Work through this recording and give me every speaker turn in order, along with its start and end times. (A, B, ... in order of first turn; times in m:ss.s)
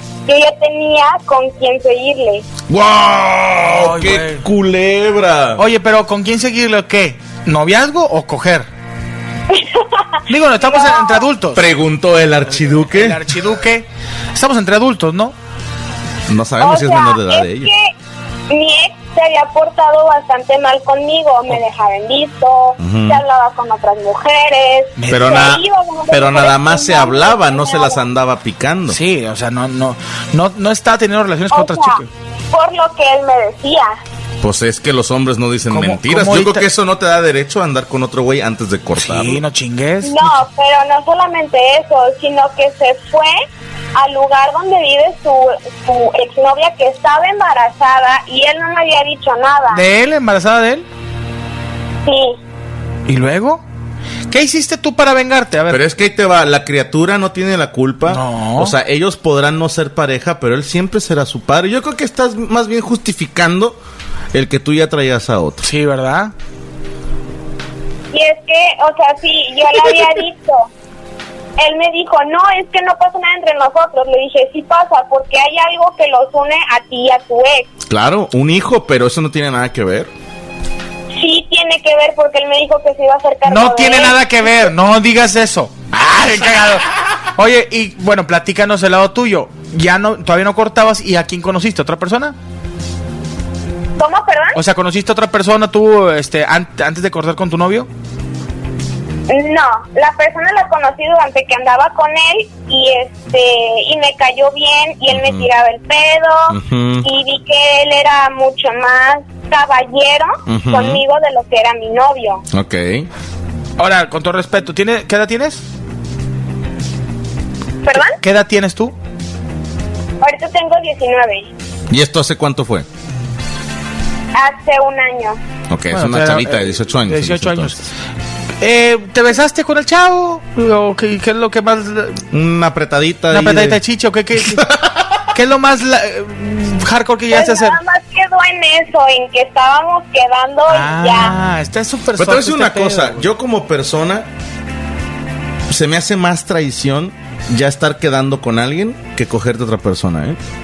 0:00.3-0:02.4 A
0:02.7-0:05.6 B
0:03.7-0:04.4 C
0:05.6-0:08.7 C
0:09.5-0:10.0 A
0:10.3-0:11.6 C
0:10.6-0:11.2 A
0:11.5-0:13.2 B
0:12.5-0:15.3 C
0:16.3-0:17.7 B
0:16.6-0:17.9 A
0:18.5-0:28.0 A
0:22.8-0:23.2 B
0:25.0-0:25.5 C
0:25.1-0:29.0 B
0:28.9-0:32.1 C
0:31.5-0:34.0 A
0:34.4-0:39.4 B
0:35.7-0:36.7 C
0:39.0-0:40.4 C
0:40.0-0:43.4 A
0:44.0-0:49.8 A
0:49.7-0:50.9 C
0:52.0-0:52.4 A
0:53.1-0:53.6 C
0:54.3-0:55.8 C
0:55.7-1:03.8 B
0:58.1-0:58.8 C
1:04.3-1:05.6 B
1:05.6-1:06.3 C
1:08.1-1:10.7 A
1:11.6-1:17.7 A
1:17.9-1:20.1 B
1:21.2-1:24.4 A
1:23.4-1:32.4 C
1:34.0-1:34.6 A
1:34.5-1:37.9 C
1:39.3-1:52.4 A
1:45.1-1:45.5 B
1:46.5-1:47.1 B
1:50.5-1:51.0 B
1:52.5-1:53.1 B
1:53.8-1:55.6 C
1:57.8-1:58.2 A
1:58.1-1:58.9 C
2:00.2-2:01.5 A
2:01.9-2:02.9 B
2:04.3-2:05.4 A
2:05.7-2:07.8 B
2:05.9-2:07.9 C
2:08.6-2:12.2 C
2:12.3-2:13.8 B
2:13.3-2:14.7 C
2:14.4-2:15.0 B
2:15.3-2:17.8 C
2:17.3-2:21.4 A
2:20.7-2:23.3 C
2:22.2-2:24.3 B
2:25.7-2:30.4 B